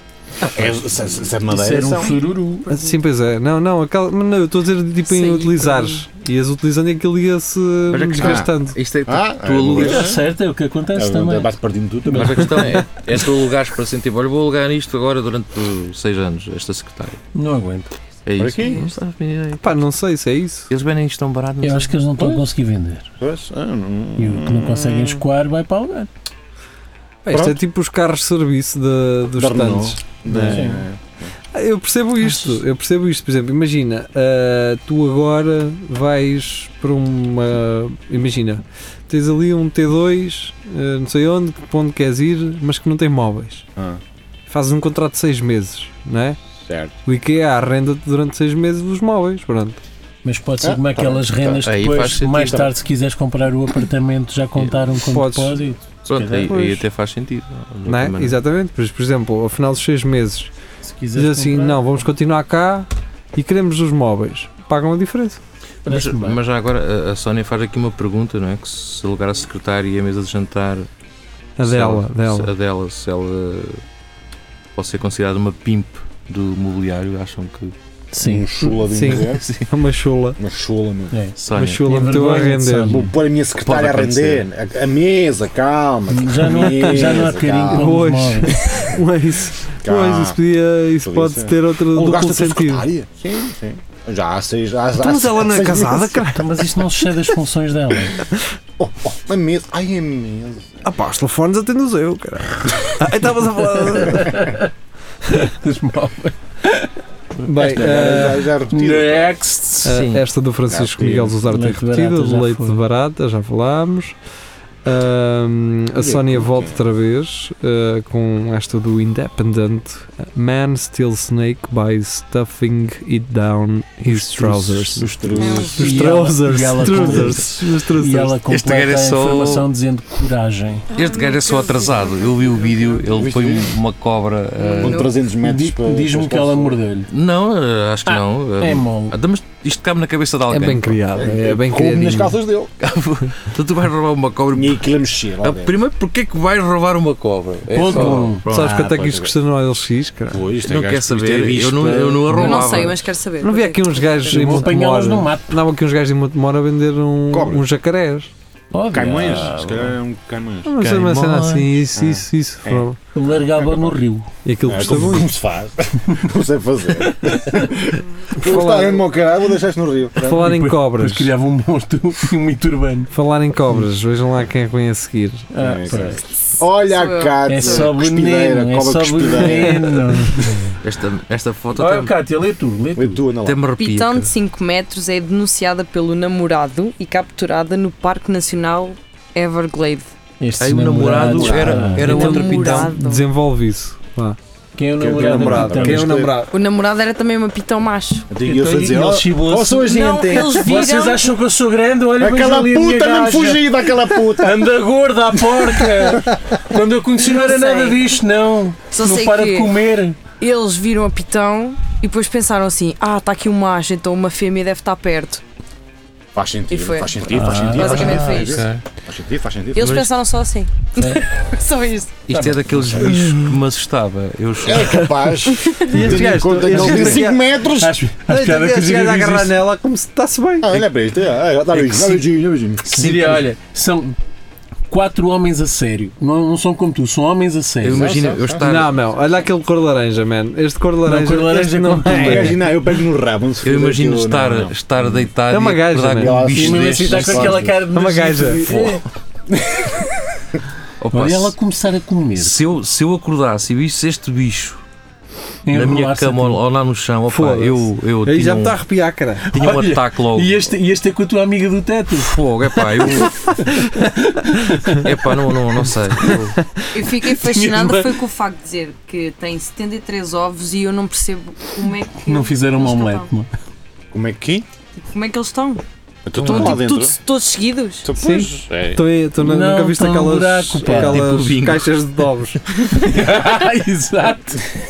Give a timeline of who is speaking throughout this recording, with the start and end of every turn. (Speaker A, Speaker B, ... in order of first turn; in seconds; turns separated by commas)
Speaker A: 0.5-2.2, Speaker B: 0.5-1.2, Speaker C: 1.4-2.7, Speaker D: 2.7-8.8, Speaker E: 5.0-6.0, Speaker B: 7.9-10.2, Speaker A: 8.2-8.5, Speaker A: 9.1-10.2, Speaker C: 9.8-11.5, Speaker A: 10.9-12.9, Speaker C: 12.1-12.8, Speaker B: 12.1-17.2, Speaker C: 17.3-17.9, Speaker B: 18.2-19.6, Speaker A: 18.4-18.8, Speaker E: 18.6-18.9, Speaker D: 19.6-20.7, Speaker B: 20.7-22.3, Speaker C: 21.6-23.1, Speaker A: 23.2-24.8, Speaker C: 24.2-26.1, Speaker E: 24.8-25.2, Speaker D: 27.2-30.6, Speaker A: 27.3-27.6, Speaker A: 29.4-31.3, Speaker C: 30.4-30.8, Speaker D: 31.5-43.6, Speaker C: 32.2-32.6, Speaker D: 44.5-46.4, Speaker A: 46.6-46.9, Speaker D: 47.0-49.8, Speaker C: 50.2-56.5, Speaker A: 50.6-51.7, Speaker B: 51.6-52.7, Speaker A: 52.4-52.7, Speaker D: 55.1-55.6, Speaker B: 56.0-58.4, Speaker D: 56.5-56.9, Speaker D: 57.9-60.5, Speaker C: 60.8-61.8, Speaker D: 61.1-65.4, Speaker C: 65.8-66.4, Speaker B: 65.9-70.9, Speaker D: 71.6-72.5, Speaker B: 71.6-73.8, Speaker B: 74.8-77.7, Speaker C: 78.1-78.5, Speaker A: 78.2-79.5, Speaker D: 78.6-80.4, Speaker B: 79.1-79.7, Speaker A: 80.4-81.2, Speaker C: 81.1-83.1, Speaker B: 81.4-81.8, Speaker D: 81.5-83.0, Speaker A: 82.9-88.1, Speaker B: 83.6-84.4, Speaker C: 86.1-88.7, Speaker D: 86.5-87.1, Speaker D: 87.7-92.9, Speaker A: 89.8-90.4, Speaker A: 91.0-96.2, Speaker D: 95.0-96.6, Speaker C: 96.3-98.2, Speaker A: 98.8-100.8, Speaker D: 100.8-104.5, Speaker C: 103.9-104.7, Speaker C: 105.3-106.9, Speaker D: 107.4-108.5, Speaker A: 107.5-109.4, Speaker C: 107.6-110.2, Speaker D: 109.8-114.2, Speaker A: 110.7-111.4, Speaker C: 111.1-112.8, Speaker D: 114.8-128.4, Speaker A: 116.0-116.8, Speaker C: 124.1-124.8, Speaker A: 124.9-126.2, Speaker E: 125.4-125.8, Speaker C: 125.7-130.9, Speaker A: 126.9-127.4, Speaker B: 128.5-129.7, Speaker E: 130.9-133.0, Speaker B: 130.9-135.1, Speaker A: 133.1-133.8, Speaker E: 134.6-135.1, Speaker A: 134.8-136.8, Speaker C: 135.3-137.1, Speaker B: 137.1-141.0, Speaker C: 138.1-139.2, Speaker D: 140.5-142.4, Speaker A: 141.1-142.7, Speaker B: 142.8-144.8, Speaker A: 144.5-145.7, Speaker B: 145.4-148.6, Speaker C: 147.7-148.4, Speaker A: 147.9-149.3, Speaker D: 148.5-150.4, Speaker A: 150.3-152.6, Speaker B: 150.6-153.0, Speaker E: 152.3-154.8, Speaker D: 152.4-158.3, Speaker C: 154.3-155.6, Speaker A: 157.3-157.6, Speaker C: 158.7-159.9, Speaker A: 158.9-160.7, Speaker D: 160.6-163.0, Speaker B: 160.8-161.8, Speaker A: 161.9-162.8, Speaker C: 163.1-164.3, Speaker A: 163.6-163.9, Speaker D: 164.4-165.3, Speaker A: 164.6-170.5, Speaker C: 167.2-167.7, Speaker D: 168.3-169.0, Speaker D: 170.2-171.3, Speaker C: 170.3-173.1, Speaker D: 173.1-175.5, Speaker C: 175.5-176.2, Speaker A: 175.6-180.0, Speaker E: 176.9-177.9, Speaker C: 177.4-180.8, Speaker B: 180.8-182.1, Speaker C: 181.8-183.2, Speaker A: 182.9-183.6, Speaker B: 183.4-184.3, Speaker E: 183.8-190.1, Speaker C: 190.4-192.3, Speaker B: 190.6-192.9, Speaker E: 191.2-193.2, Speaker D: 192.0-194.4, Speaker C: 194.8-196.1, Speaker A: 195.0-196.3, Speaker D: 195.1-196.5, Speaker E: 196.5-198.3, Speaker A: 198.3-200.8, Speaker C: 198.4-210.2, Speaker E: 199.8-201.3, Speaker A: 202.2-204.8, Speaker A: 205.3-206.4, Speaker E: 207.2-208.0, Speaker E: 208.9-209.7, Speaker E: 210.3-215.4, Speaker A: 216.3-220.0, Speaker E: 216.7-218.7, Speaker C: 217.3-218.1, Speaker B: 217.6-218.8, Speaker E: 219.7-222.2, Speaker B: 219.8-220.1, Speaker B: 222.3-225.2, Speaker C: 222.3-223.2, Speaker A: 224.6-228.0, Speaker E: 225.6-226.0, Speaker D: 225.8-227.4, Speaker C: 227.7-229.6, Speaker D: 228.3-230.8, Speaker A: 230.6-233.0, Speaker B: 231.7-232.3, Speaker B: 232.8-233.5, Speaker C: 232.8-234.2, Speaker C: 234.9-238.2, Speaker B: 237.8-239.0, Speaker A: 237.9-238.9, Speaker D: 238.6-242.6, Speaker C: 241.1-242.7, Speaker A: 242.1-245.3, Speaker B: 243.6-247.7, Speaker D: 245.5-246.4, Speaker A: 246.2-247.7, Speaker C: 246.4-249.0, Speaker D: 247.9-248.7, Speaker B: 248.7-249.0, Speaker A: 249.5-250.4, Speaker B: 251.0-251.6, Speaker C: 251.1-252.6, Speaker B: 252.4-254.8, Speaker C: 255.7-256.6, Speaker B: 255.7-258.8, Speaker D: 257.3-259.5, Speaker B: 259.5-260.6, Speaker C: 259.5-265.1, Speaker B: 262.1-263.6, Speaker B: 264.9-266.6, Speaker D: 266.3-266.9, Speaker E: 266.9-273.3, Speaker C: 267.3-268.2, Speaker C: 272.2-273.5, Speaker A: 274.1-274.6, Speaker E: 275.0-275.8, Speaker A: 276.2-277.2, Speaker B: 276.4-276.8, Speaker E: 276.4-278.1, Speaker A: 278.0-279.0, Speaker D: 278.1-282.6, Speaker C: 279.4-281.3, Speaker B: 280.8-281.9, Speaker C: 282.9-284.7